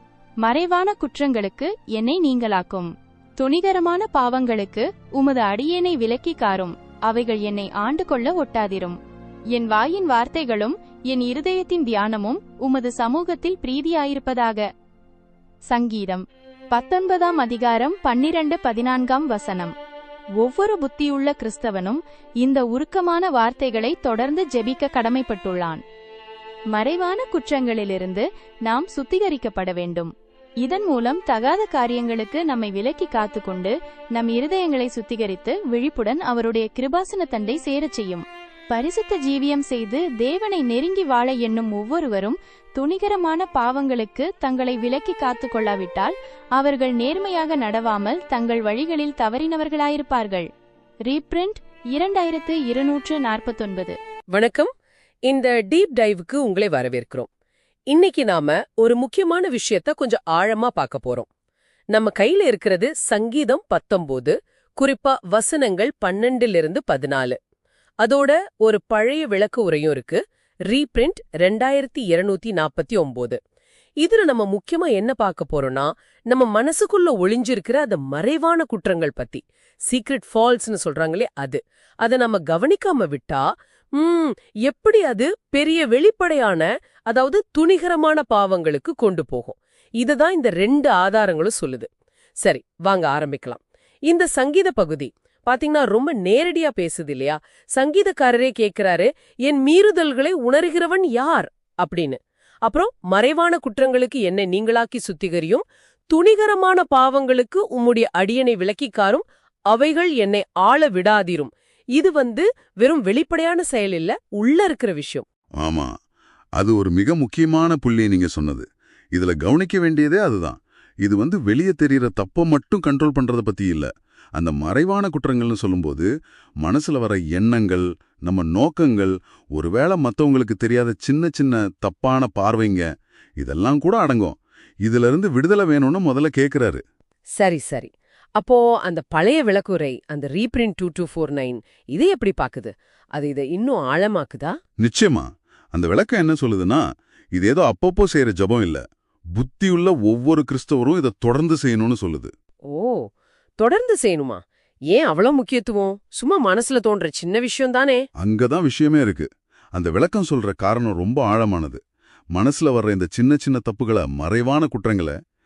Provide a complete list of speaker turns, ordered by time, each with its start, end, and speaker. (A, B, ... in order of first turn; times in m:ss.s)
0:00.4-0:09.0 A
0:09.5-0:14.6 A
0:15.7-0:19.7 A
0:20.4-0:25.8 A
0:26.7-0:30.1 A
0:30.6-0:50.5 A
0:51.1-0:54.0 A
0:54.3-0:54.7 B
0:55.3-0:57.3 B
0:57.9-1:01.2 B
1:01.9-1:07.4 B
1:08.0-1:13.4 B
1:14.0-1:23.4 B
1:24.0-1:31.9 B
1:32.4-1:55.2 B
1:55.6-1:55.9 C
1:56.6-2:06.1 C
2:06.6-2:12.9 C
2:13.4-2:16.8 C
2:17.4-2:24.5 B
2:24.8-2:26.8 C
2:27.3-2:28.8 C
2:29.4-2:32.3 C
2:32.7-2:33.0 B
2:33.6-2:34.4 B
2:34.9-2:38.0 B
2:38.2-2:41.8 C
2:42.3-2:45.1 C